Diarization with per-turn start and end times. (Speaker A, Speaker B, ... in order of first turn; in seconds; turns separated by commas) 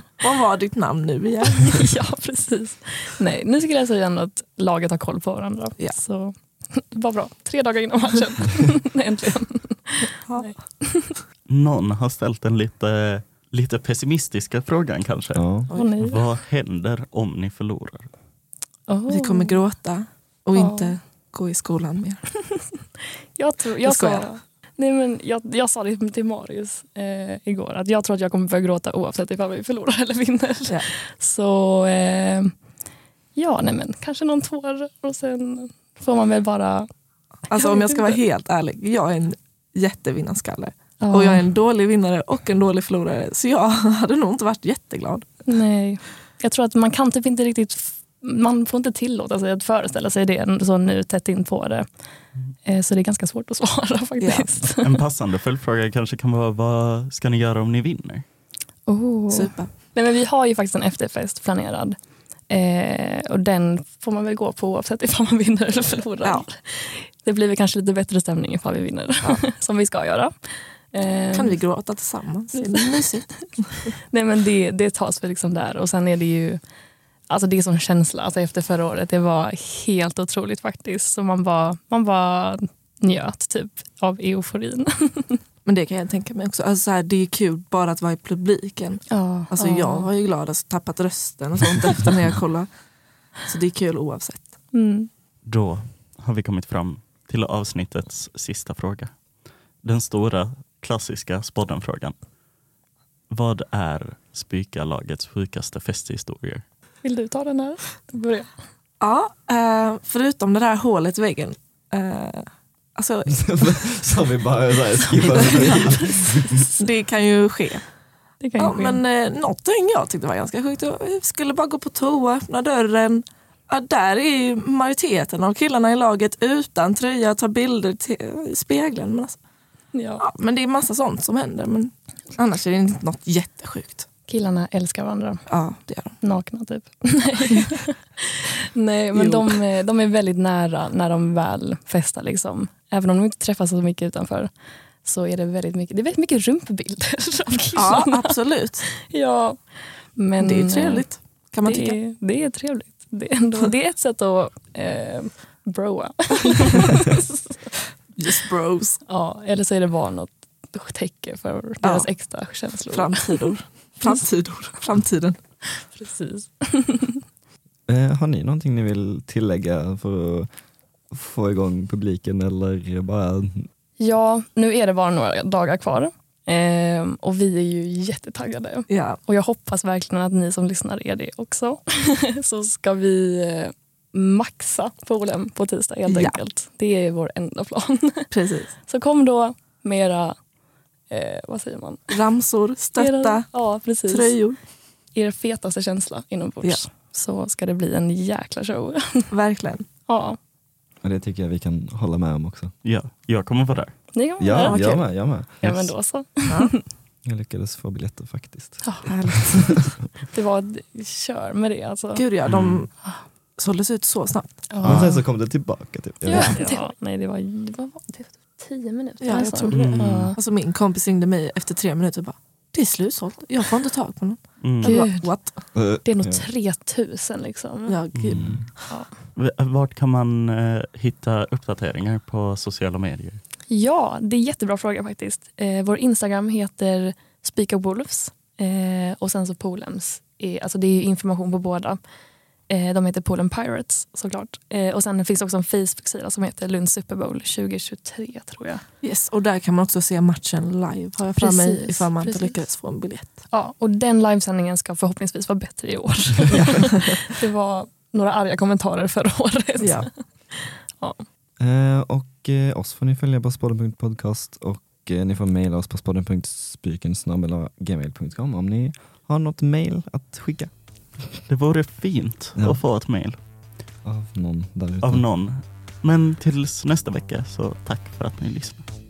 Speaker A: 0.2-1.8, Speaker B: 1.5-11.2, Speaker A: 10.2-10.5, Speaker C: 11.5-15.4, Speaker D: 15.3-15.7, Speaker B: 15.7-16.2, Speaker C: 16.0-18.1, Speaker B: 18.9-19.6, Speaker A: 19.1-22.2, Speaker B: 20.5-20.9, Speaker B: 23.3-32.5, Speaker A: 23.8-24.3, Speaker B: 33.4-36.9, Speaker A: 37.5-45.3, Speaker B: 37.5-38.2, Speaker B: 41.0-41.5, Speaker B: 45.5-51.8, Speaker B: 52.6-55.0, Speaker A: 54.2-54.5, Speaker C: 54.8-58.2, Speaker B: 58.9-62.0, Speaker A: 59.3-59.7, Speaker B: 62.5-70.3, Speaker B: 70.9-71.6, Speaker A: 71.3-73.3, Speaker B: 72.5-72.8, Speaker B: 74.0-76.6, Speaker B: 77.3-85.4, Speaker A: 85.6-92.7, Speaker B: 89.1-90.1, Speaker A: 93.4-94.5, Speaker B: 94.7-95.1, Speaker C: 95.5-99.1, Speaker C: 99.8-102.1, Speaker C: 103.3-106.6, Speaker B: 107.0-108.5, Speaker A: 109.0-112.4, Speaker A: 113.0-113.3, Speaker D: 113.3-116.6, Speaker B: 115.2-116.3, Speaker A: 115.3-115.8, Speaker A: 116.7-117.8, Speaker B: 118.4-119.0, Speaker A: 118.6-129.4, Speaker B: 129.9-130.2, Speaker A: 130.2-134.1, Speaker B: 134.3-135.4, Speaker A: 135.5-136.2, Speaker B: 136.2-144.5, Speaker A: 139.2-139.6, Speaker B: 145.0-149.6, Speaker A: 147.7-148.8, Speaker B: 150.2-151.1, Speaker A: 150.4-152.0, Speaker B: 151.6-157.7, Speaker A: 158.2-159.0, Speaker B: 159.1-163.5, Speaker A: 161.8-162.1, Speaker A: 162.9-165.4, Speaker B: 165.8-167.2, Speaker D: 167.9-170.5, Speaker D: 171.1-173.7, Speaker B: 174.0-188.3, Speaker A: 178.9-179.2, Speaker A: 186.1-186.4, Speaker A: 188.3-188.7, Speaker B: 188.8-190.3, Speaker B: 191.1-192.1, Speaker A: 192.1-193.4, Speaker B: 193.0-194.4, Speaker A: 194.1-194.6, Speaker B: 195.1-199.3, Speaker A: 199.3-199.8, Speaker B: 200.1-200.4, Speaker D: 201.0-202.7, Speaker C: 202.8-203.9, Speaker B: 204.1-204.8, Speaker D: 204.4-205.9, Speaker A: 204.6-205.1, Speaker B: 205.6-206.8, Speaker D: 207.2-209.5, Speaker A: 209.0-209.7, Speaker B: 210.2-212.2, Speaker A: 212.1-212.9, Speaker C: 212.4-212.8, Speaker A: 213.6-214.6, Speaker B: 214.7-215.2, Speaker D: 214.8-216.6, Speaker B: 216.2-220.4, Speaker A: 216.3-216.8, Speaker A: 219.2-225.6, Speaker C: 219.7-220.3, Speaker C: 224.6-225.0, Speaker B: 224.8-225.3, Speaker D: 225.7-226.5, Speaker B: 226.0-228.0, Speaker A: 227.8-228.6, Speaker C: 228.1-228.7, Speaker D: 228.3-228.6, Speaker C: 229.3-233.4, Speaker B: 233.7-242.0, Speaker B: 242.7-248.8, Speaker A: 249.0-253.4, Speaker B: 251.4-252.6, Speaker B: 253.5-261.2, Speaker A: 259.8-260.1, Speaker D: 261.6-270.7, Speaker C: 271.5-273.4, Speaker D: 274.0-275.2, Speaker C: 275.0-278.8